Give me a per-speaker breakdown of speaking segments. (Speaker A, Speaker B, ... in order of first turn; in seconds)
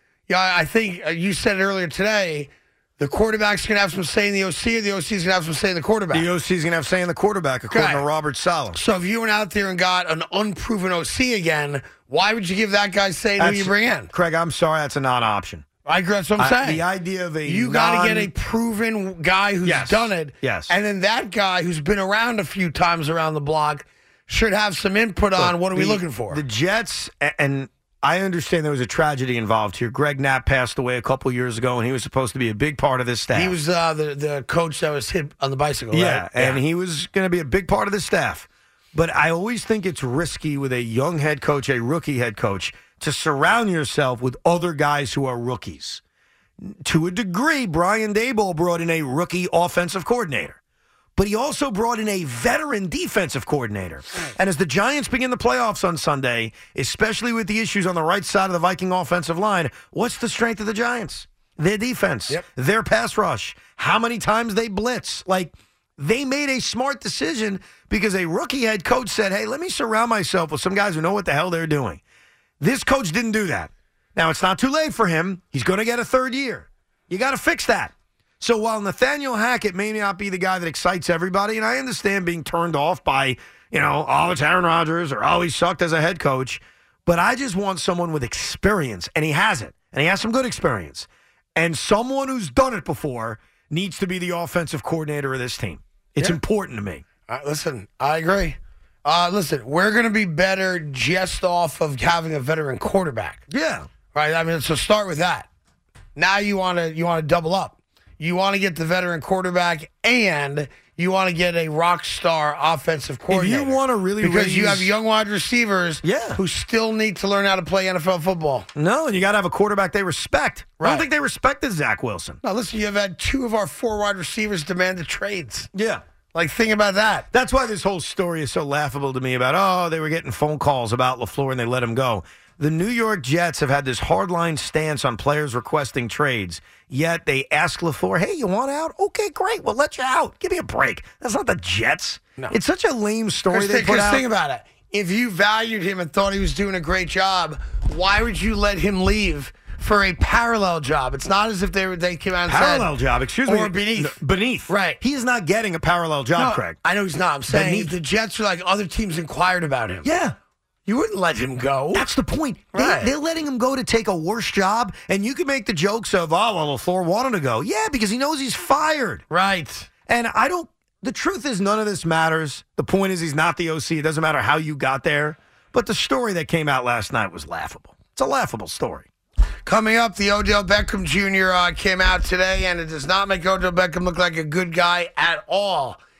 Speaker A: 0.3-6.3, 7.7-8.0, 8.7-14.1, 15.8-16.8, 17.4-26.4, 33.3-36.6, 97.3-103.4, 104.1-105.5, 106.2-118.7, 120.8-121.0, 122.4-125.7, 126.3-127.3, 143.5-152.9, 153.4-155.0, 156.3-160.1, 160.8-162.1, 162.7-163.1, 169.3-169.9, 179.6-186.0
Speaker B: 6.1-8.8, 13.4-15.6, 16.4-18.3, 19.6-20.7, 25.3-33.5, 35.9-46.0, 46.6-50.6, 51.1-72.0, 72.6-97.0, 103.5-103.9, 113.3-114.9, 116.0-116.4, 118.7-122.4, 125.7-126.0, 127.3-144.2, 152.4-156.8, 157.5-157.9, 160.0-160.3, 161.9-169.2, 170.1-179.1